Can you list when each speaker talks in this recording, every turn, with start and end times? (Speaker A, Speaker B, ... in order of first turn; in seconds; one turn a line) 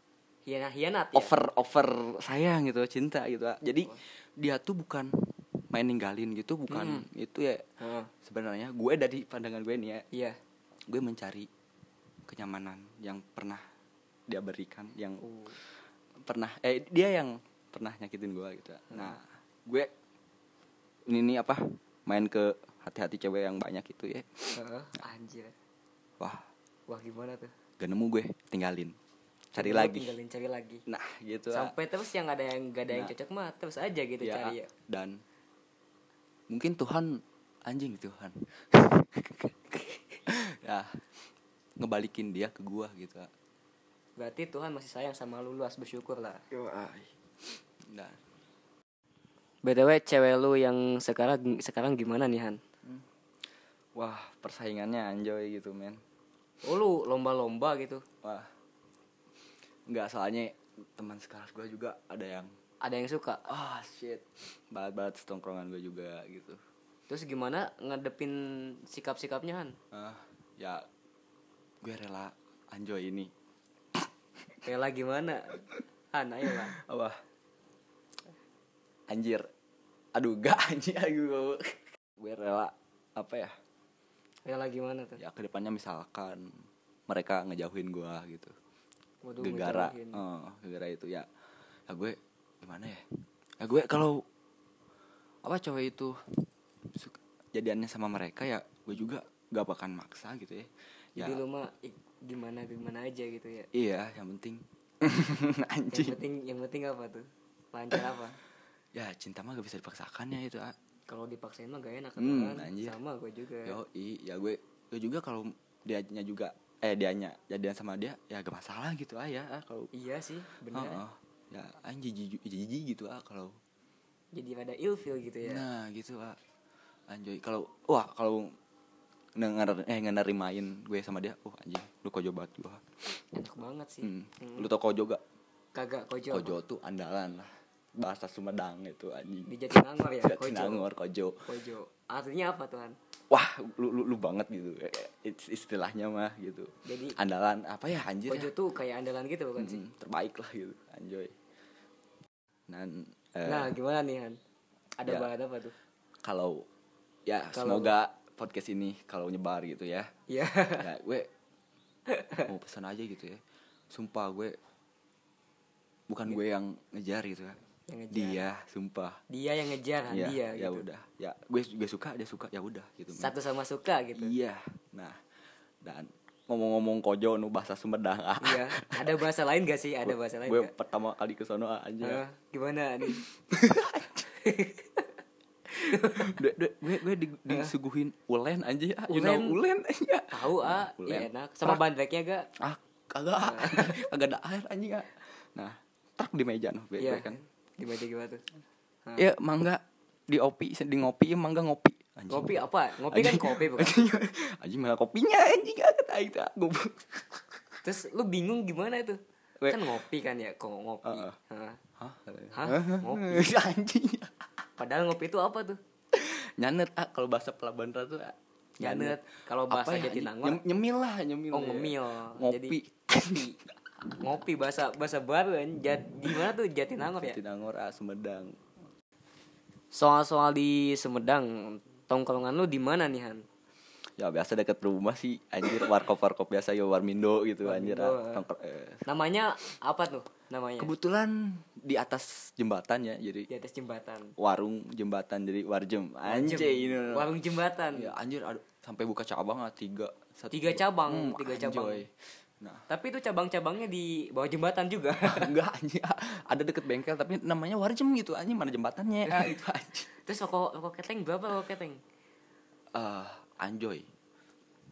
Speaker A: 0.5-1.4
Speaker B: 1.1-7.6
Speaker A: 6.7-7.0
Speaker A: 7.8-8.1
Speaker B: 8.2-10.0
Speaker A: 10.1-10.4
Speaker B: 10.9-11.5
Speaker B: 12.3-13.6
Speaker B: 14.3-15.2
Speaker A: 15.2-15.6
Speaker B: 16.2-19.9
Speaker A: 18.9-19.1
Speaker B: 21.1-24.6
Speaker A: 24.5-25.5
Speaker B: 26.2-26.4
Speaker A: 26.9-27.5
Speaker B: 27.8-28.9
Speaker B: 29.5-30.1
Speaker A: 29.6-30.8
Speaker B: 30.9-31.7
Speaker A: 31.5-34.7
Speaker B: 34.2-35.2
Speaker B: 36.5-41.0
Speaker B: 41.8-43.3
Speaker A: 44.2-46.4
Speaker B: 46.5-47.1
Speaker B: 47.8-48.2
Speaker A: 49.6-52.6
Speaker B: 53.9-56.0
Speaker A: 56.6-58.0
Speaker B: 58.2-58.5
Speaker B: 59.9-62.5
Speaker A: 62.8-63.4
Speaker B: 63.5-66.6
Speaker A: 67.1-69.8
Speaker B: 69.9-70.8
Speaker B: 71.8-73.3
Speaker A: 74.6-76.7
Speaker B: 76.5-77.2
Speaker B: 79.1-79.5
Speaker B: 80.1-83.5
Speaker A: 84.5-85.2
Speaker B: 85.2-86.5
Speaker B: 87.1-88.5
Speaker A: 89.2-90.2
Speaker B: 89.4-91.3
Speaker B: 91.9-93.0
Speaker B: 93.6-94.2
Speaker B: 95.4-101.4
Speaker A: 101.2-103.7
Speaker B: 103.7-106.2
Speaker A: 105.9-108.4
Speaker B: 108.9-110.8
Speaker A: 111.1-113.8
Speaker B: 112.2-113.0
Speaker B: 113.6-119.9
Speaker A: 119.9-121.0
Speaker B: 120.7-123.6
Speaker A: 124.3-125.6
Speaker B: 125.4-126.4
Speaker B: 127.1-128.5
Speaker B: 129.3-132.8
Speaker A: 133.3-134.7
Speaker B: 134.0-135.2
Speaker A: 135.7-136.6
Speaker B: 136.3-139.5
Speaker A: 139.5-140.9
Speaker B: 140.2-141.4
Speaker A: 141.4-142.9
Speaker B: 143.3-148.5
Speaker A: 146.8-147.2
Speaker A: 148.3-149.8
Speaker B: 149.6-151.3
Speaker B: 152.7-153.7
Speaker A: 153.4-154.4
Speaker A: 155.0-155.7
Speaker B: 155.1-155.3
Speaker B: 156.2-156.7
Speaker B: 157.3-160.1
Speaker A: 157.5-157.9
Speaker A: 160.3-160.9
Speaker B: 160.8-161.3
Speaker A: 162.1-162.5
Speaker B: 162.4-163.4
Speaker B: 163.9-164.6
Speaker B: 166.1-167.6
Speaker A: 167.9-168.4
Speaker B: 168.1-169.2
Speaker A: 169.3-170.8
Speaker B: 170.1-173.3
Speaker A: 173.2-174.3
Speaker B: 174.1-175.2
Speaker B: 175.8-179.2
Speaker A: 178.4-180.7
Speaker B: 180.0-182.2
Speaker A: 182.0-183.2
Speaker B: 183.1-184.3
Speaker A: 184.4-185.0
Speaker B: 185.8-191.8
Speaker A: 185.9-186.3
Speaker A: 189.1-189.6
Speaker A: 190.3-192.5
Speaker B: 192.6-197.4
Speaker A: 193.4-193.9
Speaker A: 197.0-198.4
Speaker B: 199.2-207.6
Speaker A: 202.3-204.0
Speaker A: 207.8-211.8
Speaker B: 209.6-209.9
Speaker B: 211.0-211.3
Speaker B: 212.0-214.4
Speaker A: 212.5-213.5
Speaker A: 214.8-215.8
Speaker B: 216.1-223.5
Speaker A: 218.8-220.6
Speaker A: 221.5-223.5
Speaker A: 224.2-227.4
Speaker B: 227.2-228.6
Speaker A: 229.9-233.4
Speaker B: 234.2-239.0
Speaker A: 237.6-238.4
Speaker A: 239.1-240.9
Speaker B: 240.8-243.5
Speaker A: 243.5-244.3
Speaker B: 244.4-247.3
Speaker A: 246.2-248.1
Speaker B: 247.9-252.8
Speaker A: 250.5-252.0
Speaker A: 252.9-255.5
Speaker B: 255.2-260.1
Speaker A: 260.2-262.0
Speaker B: 262.9-264.1